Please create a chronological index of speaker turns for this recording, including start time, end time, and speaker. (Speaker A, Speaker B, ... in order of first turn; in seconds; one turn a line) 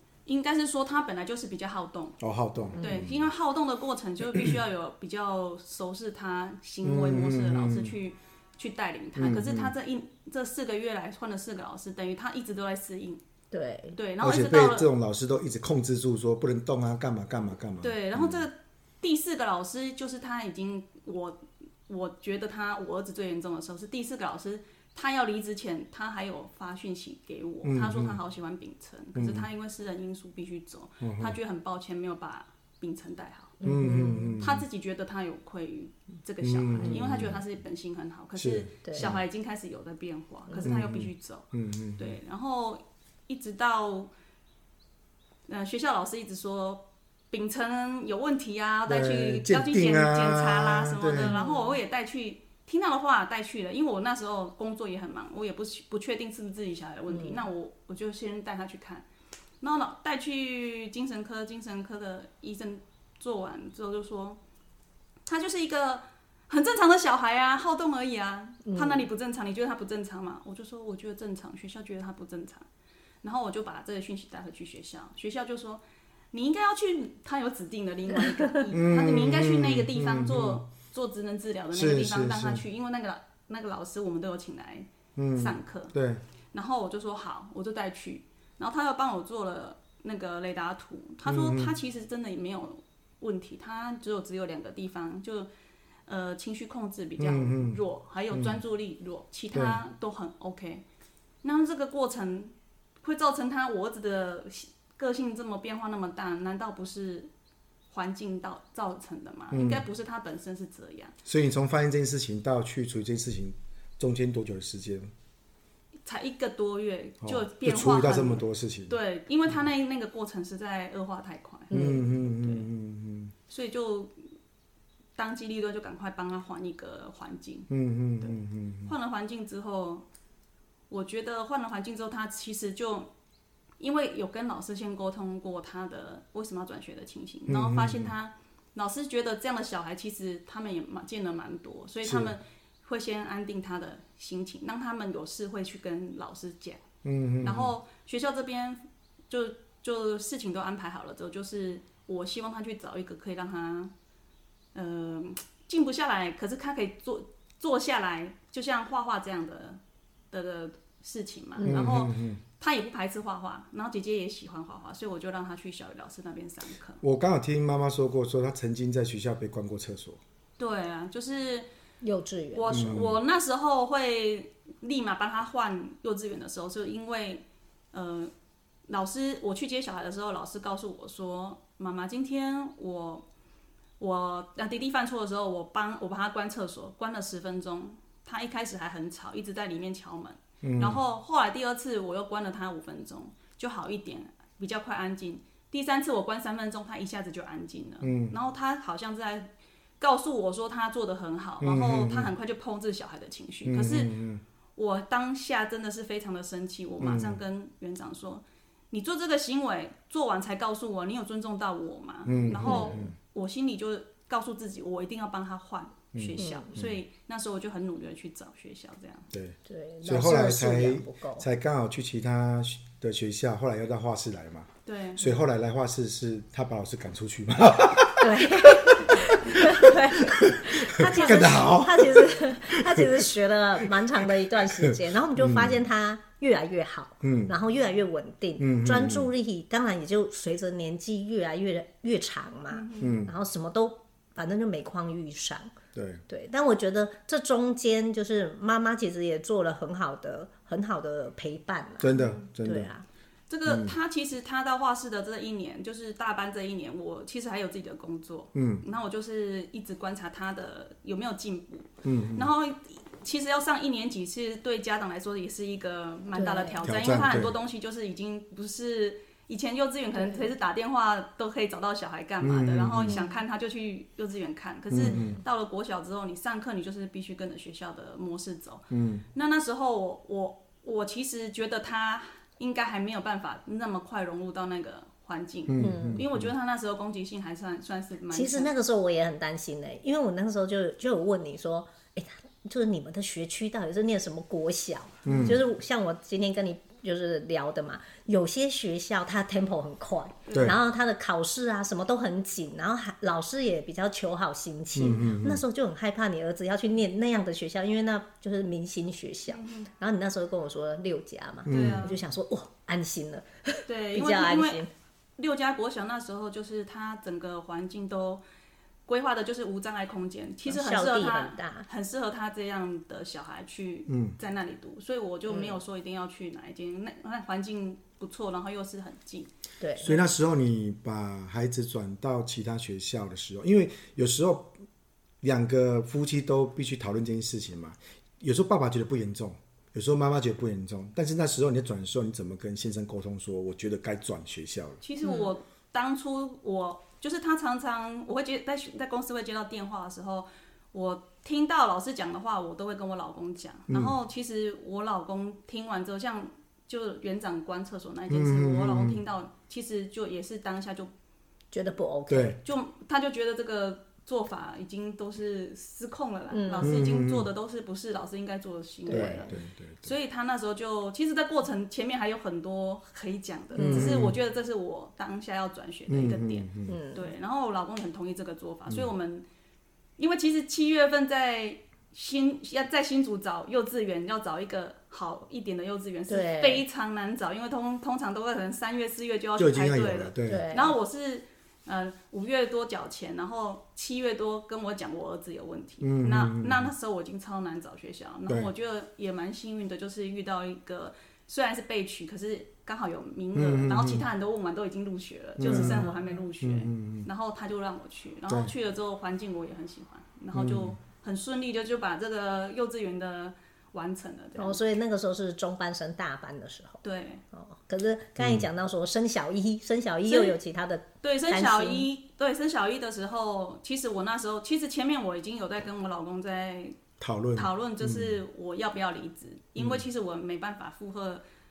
Speaker A: 0.2-2.2
Speaker B: 2.2-3.2
Speaker C: 2.7-3.0
Speaker A: 2.8-13.2
Speaker B: 6.8-7.9
Speaker B: 9.2-9.7
Speaker C: 13.5-14.0
Speaker A: 13.9-14.9
Speaker B: 14.2-18.4
Speaker A: 17.8-33.6
Speaker B: 27.6-28.2
Speaker B: 29.1-29.5
Speaker B: 31.0-31.4
Speaker C: 33.6-34.4
Speaker B: 33.6-34.6
Speaker A: 34.4-44.1
Speaker B: 36.4-37.4
Speaker C: 36.8-37.1
Speaker B: 38.3-39.2
Speaker C: 38.8-39.1
Speaker C: 40.5-40.7
Speaker B: 40.6-42.1
Speaker A: 45.5-59.0
Speaker B: 48.9-51.3
Speaker C: 51.2-51.8
Speaker C: 57.1-57.4
Speaker A: 59.6-64.4
Speaker A: 65.3-72.7
Speaker C: 68.7-69.0
Speaker A: 73.2-75.8
Speaker A: 76.3-85.9
Speaker C: 78.1-78.6
Speaker B: 78.7-80.6
Speaker B: 81.7-82.6
Speaker B: 85.2-86.2
Speaker A: 86.5-95.5
Speaker B: 91.2-91.7
Speaker A: 96.1-100.8
Speaker B: 97.2-97.8
Speaker B: 98.3-98.6
Speaker B: 99.5-99.8
Speaker A: 101.4-107.3
Speaker A: 107.9-111.1
Speaker B: 109.5-109.8
Speaker B: 111.2-115.1
Speaker A: 116.0-122.7
Speaker B: 117.2-119.0
Speaker C: 121.7-122.0
Speaker B: 121.7-123.3
Speaker A: 123.5-124.1
Speaker A: 125.2-127.7
Speaker B: 127.7-128.9
Speaker A: 128.2-130.1
Speaker A: 130.9-133.1
Speaker A: 133.8-146.8
Speaker B: 137.5-138.1
Speaker B: 142.0-142.3
Speaker B: 147.0-147.7
Speaker A: 147.4-153.9
Speaker A: 154.7-159.8
Speaker A: 160.3-167.0
Speaker B: 161.6-162.4
Speaker B: 167.0-170.2
Speaker A: 170.6-171.7
Speaker C: 172.0-172.8
Speaker A: 172.5-178.3
Speaker B: 172.7-173.2
Speaker A: 178.9-183.2
Speaker A: 184.0-204.1
Speaker B: 190.6-191.0
Speaker B: 198.0-198.3
Speaker B: 201.6-202.3
Speaker B: 203.6-204.4
Speaker A: 204.8-219.3
Speaker B: 207.0-207.4
Speaker B: 212.3-213.1
Speaker C: 212.6-213.1
Speaker B: 216.1-217.0
Speaker C: 216.4-216.7
Speaker B: 219.3-233.2
Speaker C: 219.7-221.5
Speaker A: 224.8-225.4
Speaker C: 228.2-245.7
Speaker B: 234.7-235.8
Speaker B: 237.2-237.6
Speaker B: 238.6-239.3
Speaker A: 242.7-243.2
Speaker B: 243.0-243.3
Speaker B: 245.9-246.2
Speaker C: 246.3-253.0
Speaker B: 252.0-252.9
Speaker A: 252.1-252.5
Speaker A: 253.5-288.7
Speaker B: 253.7-253.9
Speaker B: 258.5-258.8
Speaker B: 262.0-262.5
Speaker C: 266.3-266.8
Speaker B: 266.8-267.5
Speaker C: 270.1-270.5
Speaker B: 272.4-273.1
Speaker C: 273.0-273.4
Speaker B: 274.9-275.4
Speaker C: 275.0-275.4
Speaker B: 278.9-279.2
Speaker B: 285.7-286.5
Speaker C: 285.8-286.2
Speaker C: 288.3-314.9
Speaker B: 295.2-295.6
Speaker A: 300.4-300.7
Speaker B: 304.9-305.6
Speaker A: 309.5-309.9
Speaker B: 311.6-312.1
Speaker A: 311.7-312.2
Speaker A: 313.9-314.8
Speaker A: 315.4-318.4
Speaker A: 319.1-329.5
Speaker C: 320.6-321.9
Speaker B: 324.1-324.4
Speaker C: 325.5-325.8
Speaker C: 329.8-330.1
Speaker B: 330.0-334.7
Speaker B: 335.4-345.0
Speaker A: 345.0-361.1
Speaker C: 345.2-345.5
Speaker B: 353.9-354.1
Speaker B: 358.3-359.2
Speaker C: 361.7-362.6
Speaker B: 362.3-362.6
Speaker A: 362.6-379.4
Speaker C: 366.5-367.1
Speaker B: 366.8-367.5
Speaker C: 369.1-369.6
Speaker B: 369.1-370.1
Speaker C: 373.7-374.2
Speaker B: 373.8-374.4
Speaker B: 376.1-377.0
Speaker C: 376.9-377.3
Speaker A: 380.2-414.8
Speaker C: 386.3-386.8
Speaker B: 389.6-390.7
Speaker C: 390.4-390.9
Speaker B: 396.0-396.9
Speaker B: 403.5-404.2
Speaker B: 405.6-406.1
Speaker C: 405.6-406.2
Speaker B: 406.6-407.3
Speaker B: 410.5-410.9
Speaker C: 414.6-417.0
Speaker A: 417.0-417.4
Speaker C: 417.5-422.1
Speaker B: 418.4-418.7
Speaker A: 420.2-420.6
Speaker A: 421.2-427.0
Speaker B: 427.2-428.4
Speaker A: 427.5-431.4
Speaker B: 429.8-430.0